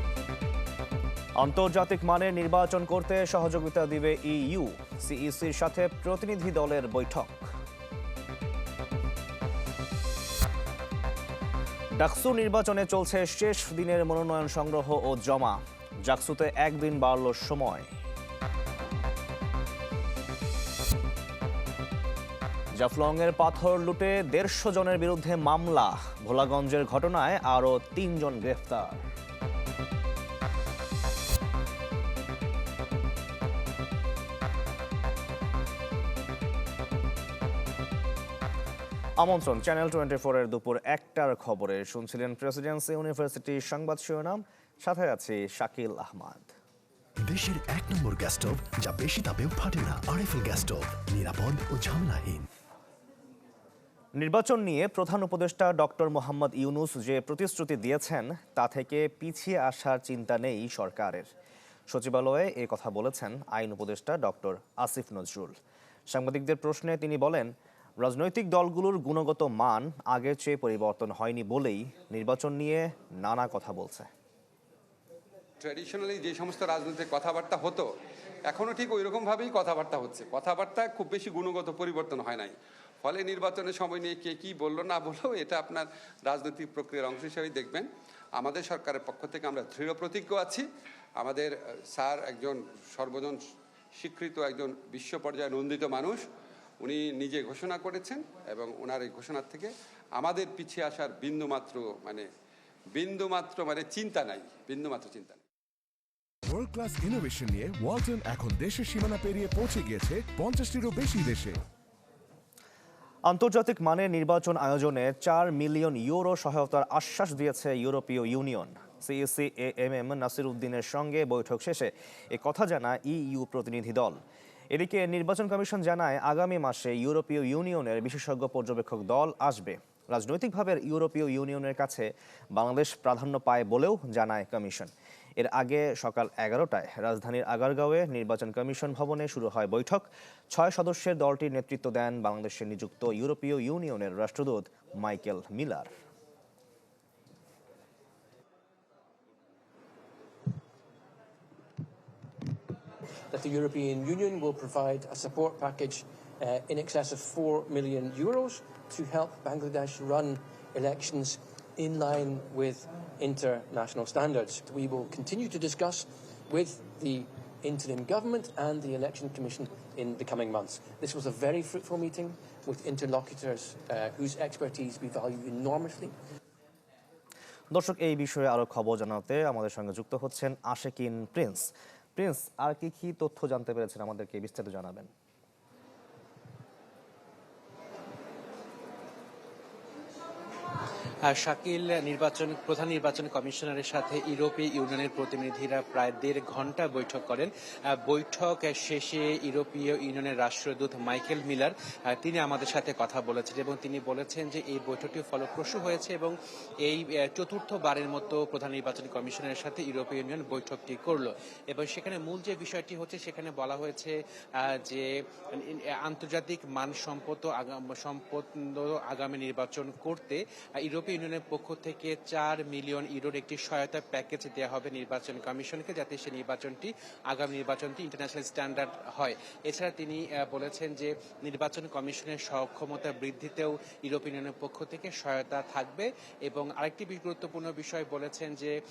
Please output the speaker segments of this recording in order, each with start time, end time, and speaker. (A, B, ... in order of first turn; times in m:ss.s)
0:01.4-0:07.4 A
0:12.0-0:17.9 A
0:22.8-0:29.0 A
0:39.2-0:46.5 A
0:47.2-0:52.4 B
0:54.2-1:01.3 A
1:01.9-1:05.6 A
1:06.1-1:07.5 A
1:08.0-1:14.1 A
1:15.6-1:17.8 C
1:18.5-1:27.9 C
1:28.4-1:30.6 C
1:31.2-1:33.4 C
1:34.0-1:36.2 C
1:36.8-1:42.2 C
1:43.0-1:45.4 C
1:46.5-1:51.5 D
1:53.3-2:04.2 A
2:04.7-2:25.9 A
2:33.3-2:56.1 E
2:57.7-3:05.1 A
3:11.3-3:58.7 F